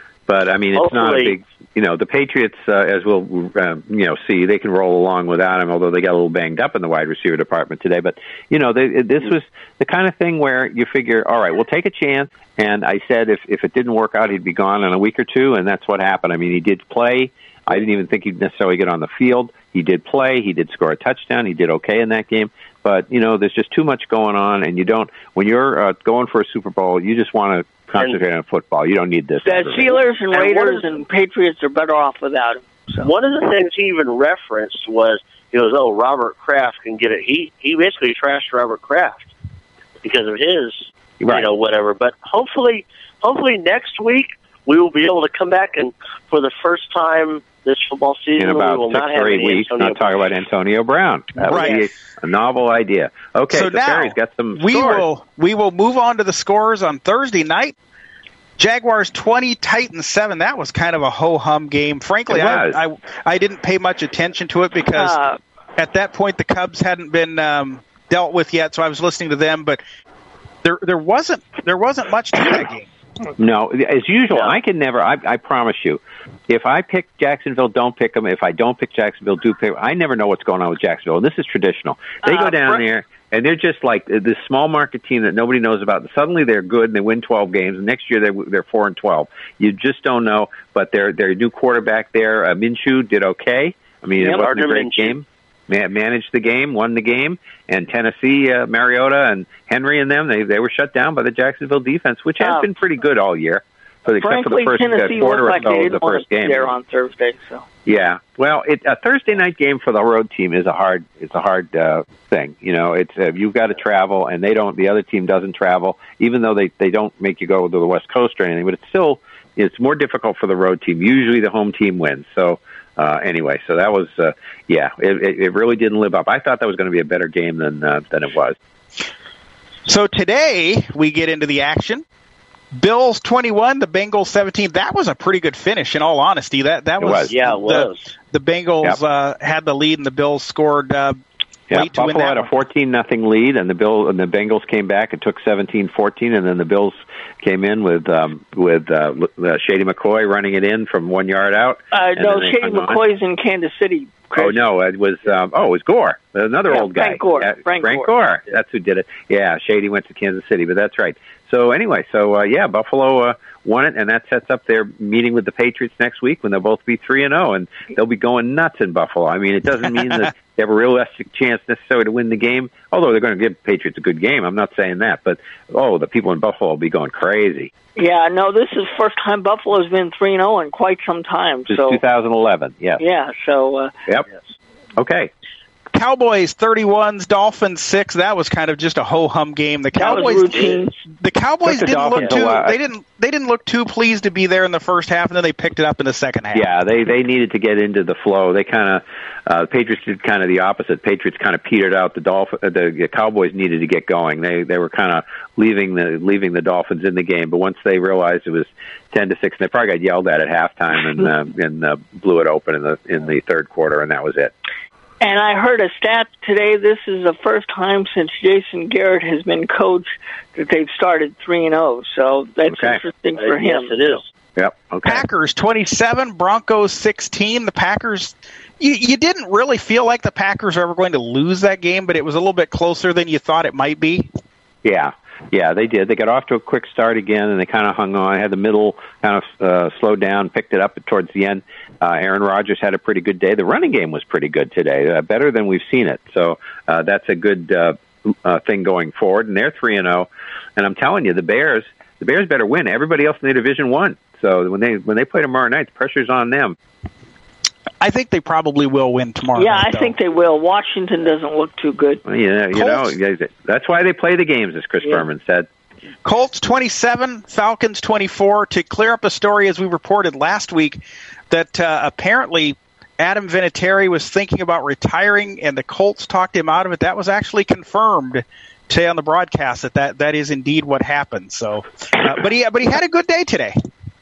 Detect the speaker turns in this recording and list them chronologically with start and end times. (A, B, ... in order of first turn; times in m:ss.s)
0:00.3-0:29.9 A
0:00.7-0:01.4 B
0:29.4-0:33.1 C
0:30.3-0:30.9 B
0:33.0-0:39.3 B
0:40.0-0:50.2 B
0:41.2-0:41.5 A
0:48.4-0:55.0 A
0:51.4-0:51.9 D
0:53.5-0:57.8 D
0:58.6-1:05.2 D
1:02.3-1:02.8 A
1:05.0-1:05.4 C
1:05.8-1:09.8 D
1:10.6-1:12.9 D
1:13.4-1:46.7 A
1:14.3-1:14.6 B
1:22.2-1:22.8 C
1:34.2-1:34.4 C
1:34.2-1:35.2 B
1:42.4-1:42.7 C
1:44.2-1:47.6 C
1:47.9-2:08.6 A
2:09.9-2:12.0 D
2:12.8-2:21.2 D
2:17.0-2:17.3 A
2:17.3-2:18.0 B
2:21.7-2:22.5 D
2:21.7-2:33.0 A
2:31.9-2:34.6 C
2:34.4-2:57.7 A
2:36.7-2:38.1 C
2:58.0-3:02.0 C
3:01.7-3:03.0 A
3:03.0-3:03.9 C
3:05.0-3:05.3 A
3:05.9-3:16.7 D
3:10.0-3:10.9 C
3:11.6-3:12.8 A
3:16.5-3:34.5 A
3:35.2-3:44.2 C
3:42.7-3:43.0 A
3:43.4-3:44.2 B
3:44.6-3:45.2 A
3:45.0-3:54.3 D
3:54.8-4:16.8 A
4:18.0-4:20.2 D
4:19.6-4:22.2 C
4:22.3-4:25.7 A
4:22.7-4:23.2 D
4:26.2-4:43.8 D